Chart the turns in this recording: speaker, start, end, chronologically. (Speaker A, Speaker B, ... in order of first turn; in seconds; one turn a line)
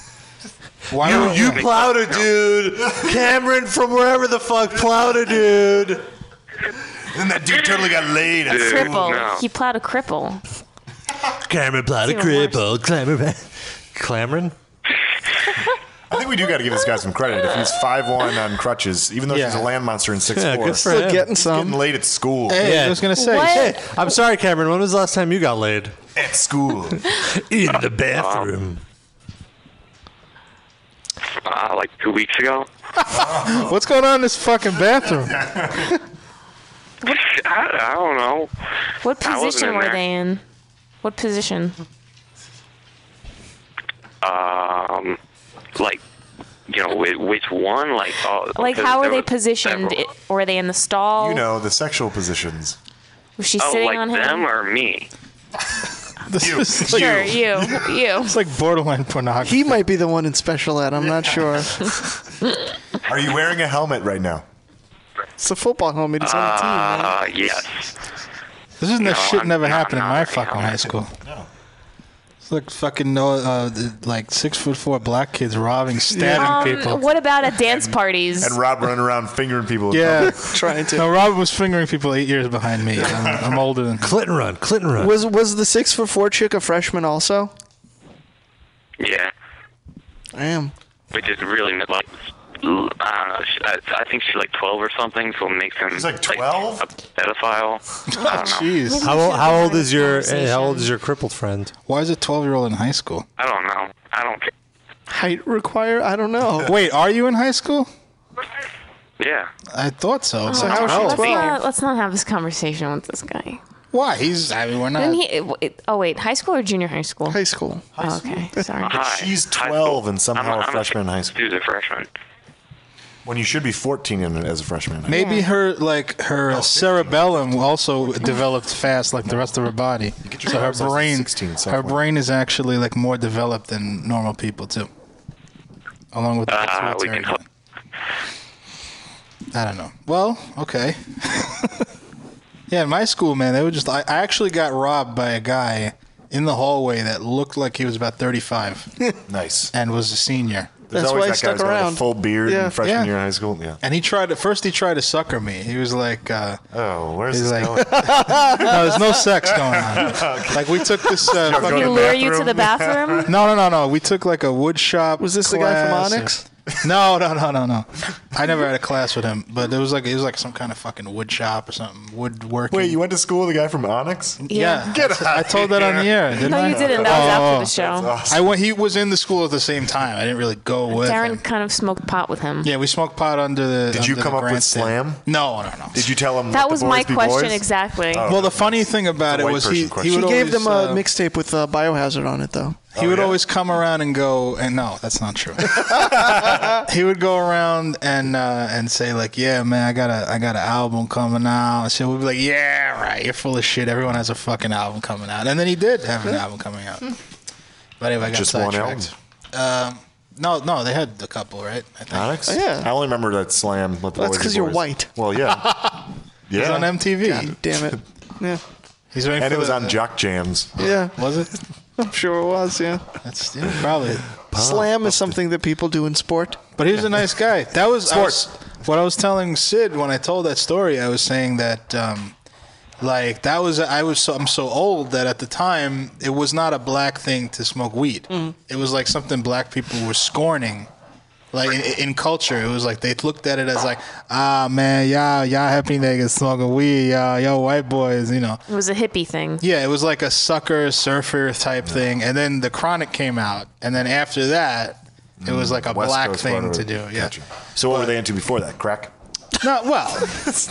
Speaker A: 0.9-1.6
Speaker B: 0.9-6.0
Speaker C: 1.3-2.3
Speaker D: 7.1-9.0
Speaker C: 8.5-9.4
Speaker E: 8.5-10.4
Speaker B: 11.4-14.5
Speaker E: 12.0-12.6
Speaker D: 16.1-22.7
Speaker A: 19.3-19.7
Speaker B: 20.3-21.3
Speaker F: 20.8-21.8
Speaker A: 22.5-23.7
Speaker B: 22.6-25.9
Speaker E: 23.2-23.8
Speaker D: 26.1-27.0
Speaker B: 27.3-28.8
Speaker C: 28.1-28.5
Speaker C: 31.4-32.7
Speaker D: 33.1-33.8
Speaker A: 33.1-36.0
Speaker D: 35.4-35.8
Speaker C: 37.0-38.5
Speaker E: 39.0-40.4
Speaker C: 39.2-40.0
Speaker E: 41.0-41.8
Speaker C: 44.2-45.2
Speaker C: 45.8-46.0
Speaker C: 46.7-50.0
Speaker E: 48.5-51.5
Speaker D: 51.2-52.8
Speaker E: 53.4-54.5
Speaker C: 53.6-55.1
Speaker A: 56.3-57.2
Speaker D: 56.4-57.9
Speaker E: 56.9-58.4
Speaker A: 58.2-59.6
Speaker F: 59.4-61.8
Speaker D: 61.0-61.7
Speaker D: 63.1-64.4
Speaker F: 65.4-67.2
Speaker C: 66.2-67.9
Speaker A: 68.8-71.1
Speaker C: 69.0-70.8
Speaker A: 72.4-77.0
Speaker F: 76.1-76.8
Speaker E: 76.3-78.6
Speaker D: 77.7-80.4
Speaker A: 79.9-80.4
Speaker F: 80.4-81.1
Speaker A: 80.9-84.1
Speaker D: 83.0-83.6
Speaker B: 84.0-85.1
Speaker F: 85.0-87.5
Speaker C: 89.0-89.3
Speaker F: 90.3-90.7
Speaker C: 91.1-98.7
Speaker D: 95.9-96.8
Speaker A: 98.2-99.1
Speaker E: 98.2-100.9
Speaker B: 99.0-101.7
Speaker A: 101.9-103.2
Speaker C: 103.4-104.5
Speaker F: 105.1-106.7
Speaker A: 106.6-107.9
Speaker C: 109.2-109.5
Speaker A: 109.7-111.4
Speaker E: 110.5-113.6
Speaker F: 110.5-111.6
Speaker A: 113.9-115.2
Speaker E: 115.0-117.4
Speaker F: 117.3-117.9
Speaker D: 117.9-118.3
Speaker E: 118.0-119.0
Speaker C: 118.8-122.1
Speaker D: 118.9-121.4
Speaker D: 123.2-125.2
Speaker A: 125.0-134.9
Speaker E: 125.1-125.5
Speaker D: 126.5-128.4
Speaker D: 130.2-132.0
Speaker A: 136.1-137.4
Speaker C: 136.5-137.4
Speaker A: 139.5-141.8
Speaker A: 142.7-148.9
Speaker D: 149.3-149.7
Speaker A: 149.7-150.8
Speaker F: 150.9-152.8
Speaker D: 150.9-153.8
Speaker A: 152.8-153.1
Speaker A: 153.8-156.6
Speaker D: 156.7-163.3
Speaker A: 157.3-162.1
Speaker F: 157.9-158.6
Speaker E: 161.4-163.3
Speaker A: 163.2-166.3
Speaker F: 165.2-166.4
Speaker A: 166.8-173.0
Speaker D: 172.7-178.4
Speaker A: 174.4-177.7
Speaker E: 174.5-174.9
Speaker E: 176.4-178.2
Speaker A: 178.3-181.4
Speaker E: 180.9-182.7
Speaker A: 182.6-186.1
Speaker D: 183.9-185.2
Speaker D: 185.9-190.2
Speaker E: 186.5-188.3
Speaker A: 188.2-191.0
Speaker F: 190.1-192.9
Speaker D: 192.9-193.4
Speaker A: 192.9-195.8
Speaker A: 196.8-207.1
Speaker A: 208.0-212.4
Speaker D: 208.2-209.1
Speaker D: 212.1-215.9
Speaker F: 212.5-212.9
Speaker F: 214.2-215.1
Speaker D: 216.5-217.0
Speaker A: 216.6-217.5
Speaker F: 217.2-218.6
Speaker A: 219.1-220.0
Speaker D: 219.4-220.9
Speaker F: 220.8-221.2
Speaker A: 221.2-221.5
Speaker F: 222.0-223.1
Speaker A: 223.2-224.2
Speaker D: 224.5-225.4
Speaker F: 224.5-226.6
Speaker A: 226.8-232.3
Speaker F: 228.1-228.4
Speaker A: 233.0-240.9
Speaker F: 238.3-238.6
Speaker A: 241.5-248.6
Speaker E: 248.7-249.6
Speaker A: 249.6-257.3
Speaker D: 255.4-259.1
Speaker A: 257.9-258.1
Speaker A: 259.6-260.5